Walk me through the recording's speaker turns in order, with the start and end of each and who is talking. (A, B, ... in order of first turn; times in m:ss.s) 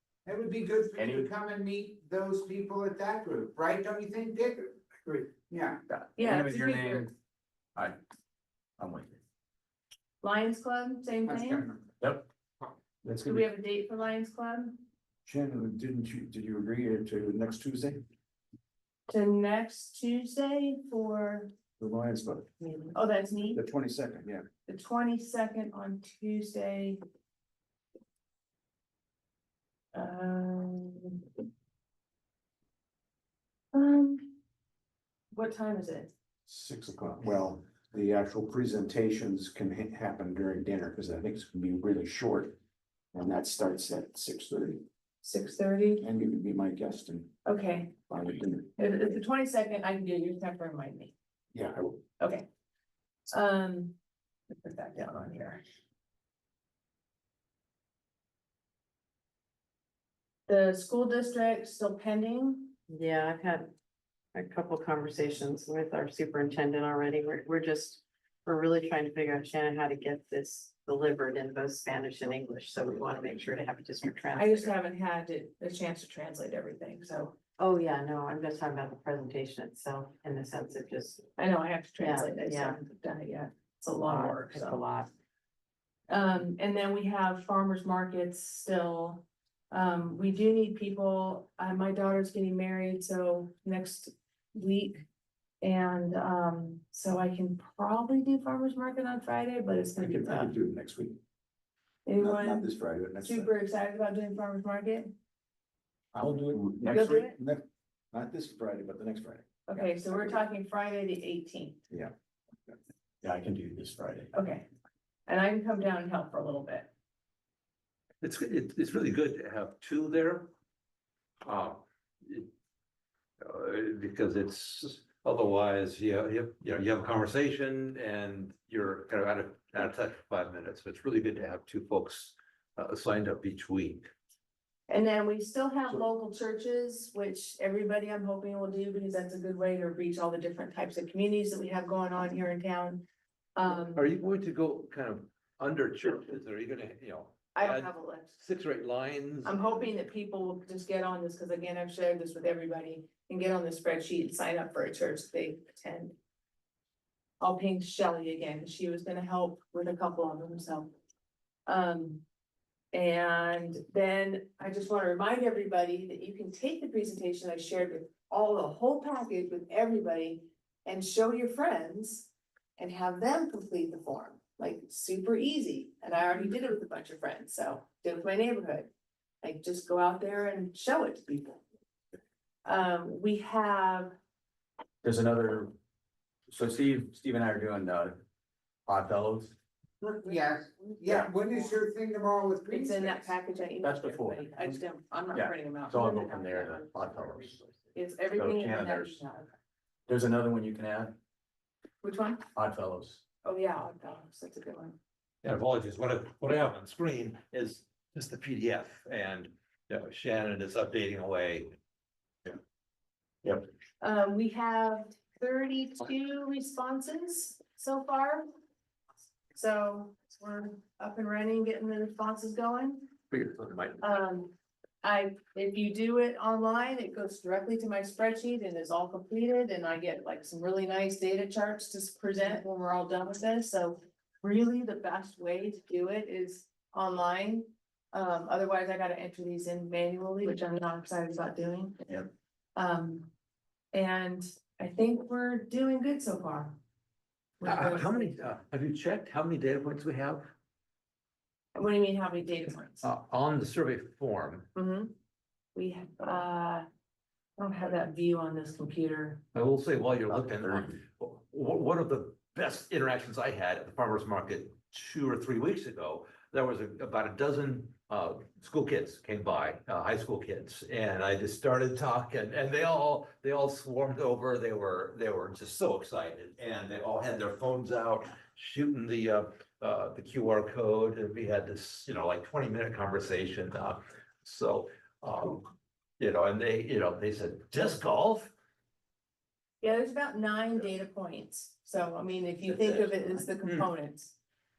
0:00.2-0:05.8 A
0:01.0-0:01.3 B
0:05.9-0:07.1 B
0:06.2-0:07.1 C
0:08.8-0:09.2 B
0:10.2-0:11.7 C
0:11.3-0:11.8 A
0:13.1-0:13.5 B
0:13.2-0:14.8 C
0:15.2-0:18.0 D
0:19.1-0:21.5 C
0:21.8-0:22.5 D
0:22.6-0:22.9 E
0:22.9-0:23.6 C
0:23.6-0:24.5 D
0:24.7-0:27.0 C
0:29.9-0:31.3 C
0:33.7-0:34.4 C
0:35.3-0:36.1 C
0:36.5-0:42.6 D
0:43.1-0:44.8 D
0:45.2-0:46.0 C
0:46.0-0:47.4 D
0:47.4-0:48.0 C
0:48.1-0:48.8 D
0:48.8-0:51.2 C
0:51.5-0:52.0 D
0:52.2-0:52.5 C
0:53.3-0:54.0 C
0:54.5-0:55.6 C
1:00.5-1:02.8 C
1:02.9-1:03.7 E
1:04.3-1:14.7 E
1:14.4-1:17.4 C
1:17.6-1:21.2 E
1:21.4-1:24.8 C
1:22.0-1:22.8 E
1:24.1-1:25.1 E
1:26.1-1:35.1 C
1:35.6-1:40.5 C
1:40.0-1:41.2 D
1:42.1-1:42.7 C
1:42.2-1:43.5 D
1:43.2-1:45.1 C
1:46.1-1:50.4 D
1:46.5-1:47.2 B
1:46.9-1:47.4 C
1:49.7-1:51.8 C
1:53.2-1:54.3 B
1:54.3-1:54.7 C
1:55.3-1:56.9 C
1:58.2-2:00.5 F
2:01.4-2:02.5 F
2:03.4-2:14.1 F
2:14.9-2:23.0 C
2:23.6-2:24.1 C
2:23.7-2:29.9 F
2:27.6-2:28.4 C
2:29.4-2:36.2 C
2:37.4-2:40.9 C
2:41.7-2:42.2 C
2:42.9-2:58.9 C
2:59.4-3:01.6 C
3:02.6-3:04.2 C
3:05.0-3:05.7 B
3:06.5-3:08.2 B
3:08.9-3:09.6 B
3:10.0-3:13.3 A
3:12.7-3:16.9 C
3:13.8-3:14.8 B
3:15.3-3:17.7 B
3:17.9-3:19.6 C
3:18.3-3:19.2 B
3:20.1-3:21.2 B
3:22.0-3:22.5 C
3:22.6-3:23.2 B
3:23.4-3:25.0 C
3:25.4-3:31.7 F
3:34.0-3:38.5 C
3:39.5-3:43.2 C
3:43.3-3:44.1 F
3:44.0-4:03.3 C
4:03.9-4:06.8 C
4:07.6-4:08.4 C
4:07.6-4:10.5 F
4:11.8-4:13.1 C
4:13.0-4:14.7 F
4:14.8-4:15.1 C
4:15.8-4:16.9 C
4:17.6-4:19.4 C
4:19.5-4:48.5 F
4:20.6-4:20.9 B
4:49.8-4:54.4 C
4:52.7-4:53.9 F